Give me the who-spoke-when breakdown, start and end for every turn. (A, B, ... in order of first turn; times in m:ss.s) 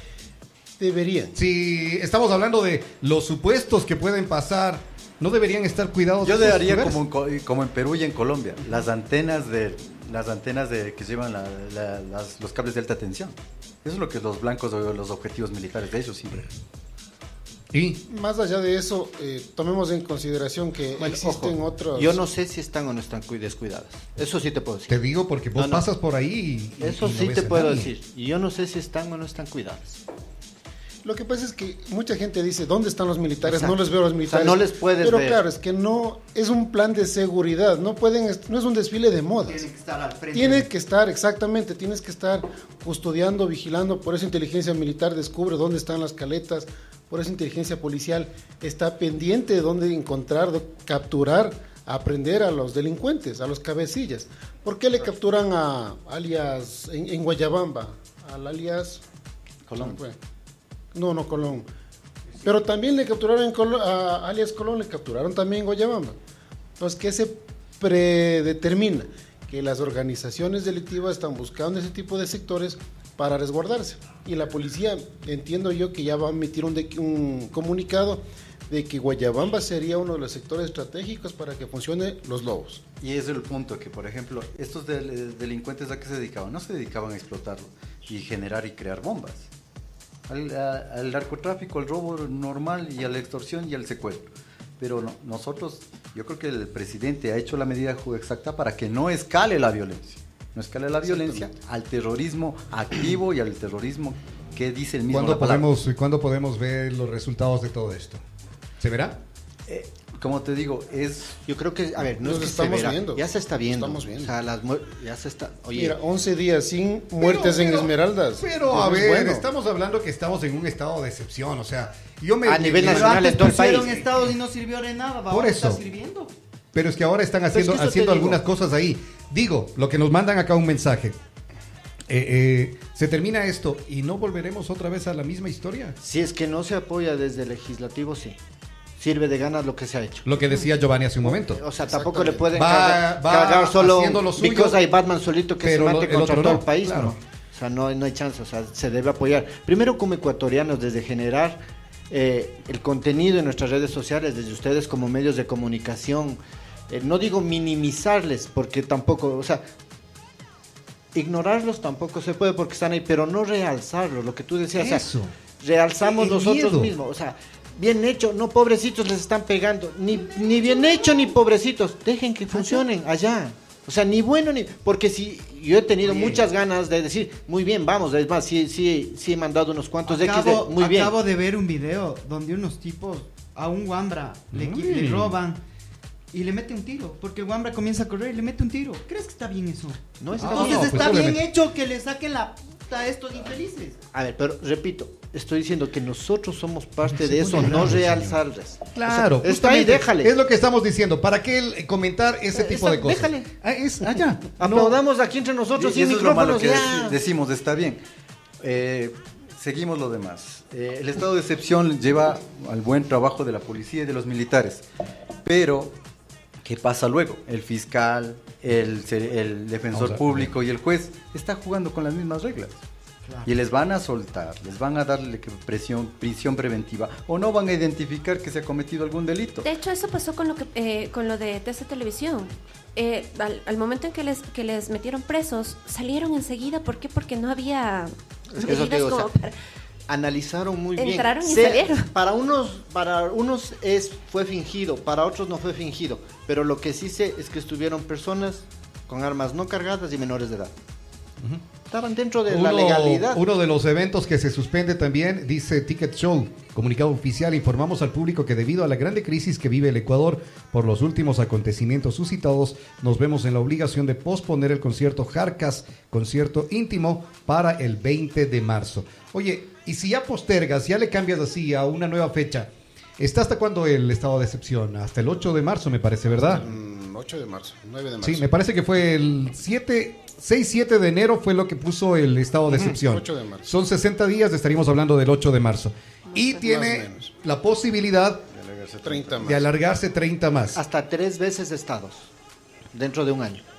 0:00.8-0:01.4 A
0:01.3-0:07.0 B
0:06.2-0:16.5 C
0:17.7-0:18.0 B
0:18.1-0:22.2 A
0:21.0-0:24.9 D
0:24.9-0:27.9 B
0:25.5-0:25.8 D
0:26.8-0:30.0 D
0:31.0-0:39.6 A
0:33.5-0:33.7 D
0:34.3-0:35.4 D
0:39.5-0:40.7 E
0:40.3-0:59.0 A
0:59.7-1:00.0 C
0:59.7-1:00.2 A
1:00.9-1:01.7 A
1:02.4-1:06.2 A
1:06.8-1:22.8 A
1:23.0-1:29.5 C
1:30.3-1:45.7 C
1:41.0-1:41.5 A
1:45.1-1:48.2 B
1:48.8-1:49.2 B
1:49.7-1:51.4 C
1:51.5-1:56.0 D
1:52.2-1:54.3 A
1:55.7-1:59.5 A
1:57.2-2:03.5 B
2:02.4-2:03.9 D
2:02.8-2:06.3 E
2:05.3-2:05.8 B
2:06.7-2:11.2 B
2:07.5-2:08.4 D
2:12.1-2:16.0 B
2:16.0-2:18.4 D
2:19.0-2:20.2 D
2:20.2-2:21.6 B
2:21.2-2:31.6 D
2:21.8-2:22.6 A
2:22.5-2:24.8 B
2:25.6-2:27.2 B
2:32.1-2:39.6 D
2:41.1-2:45.0 D
2:44.8-2:45.3 B
2:45.6-3:01.1 D
2:46.0-2:46.9 B
2:50.5-2:51.2 E
2:52.5-2:52.8 E
2:56.0-2:56.4 E
3:00.0-3:05.6 E
3:04.5-3:05.3 B
3:06.3-3:14.0 E
3:10.2-3:11.3 D
3:10.4-3:11.4 B
3:14.1-3:20.3 D
3:17.1-3:18.4 B
3:17.6-3:17.9 E
3:18.9-3:25.0 B
3:22.5-3:23.5 D
3:24.6-3:27.1 D
3:25.8-3:28.0 C
3:28.6-3:34.8 C
3:35.4-3:35.9 C
3:36.6-3:42.8 C
3:39.9-3:40.5 B
3:43.2-3:43.5 E
3:43.4-3:49.7 C
3:49.6-3:59.5 F
3:58.5-3:59.3 D
4:00.1-4:10.7 D
4:01.0-4:02.1 F
4:11.9-4:13.4 D
4:12.5-4:36.6 B
4:36.3-4:38.5 A
4:38.2-4:48.4 B
4:42.7-4:43.7 A
4:46.5-4:47.3 A
4:48.5-4:49.4 C
4:49.0-4:49.7 A
4:49.4-4:50.8 B
4:50.7-4:52.3 D
4:52.9-4:53.6 D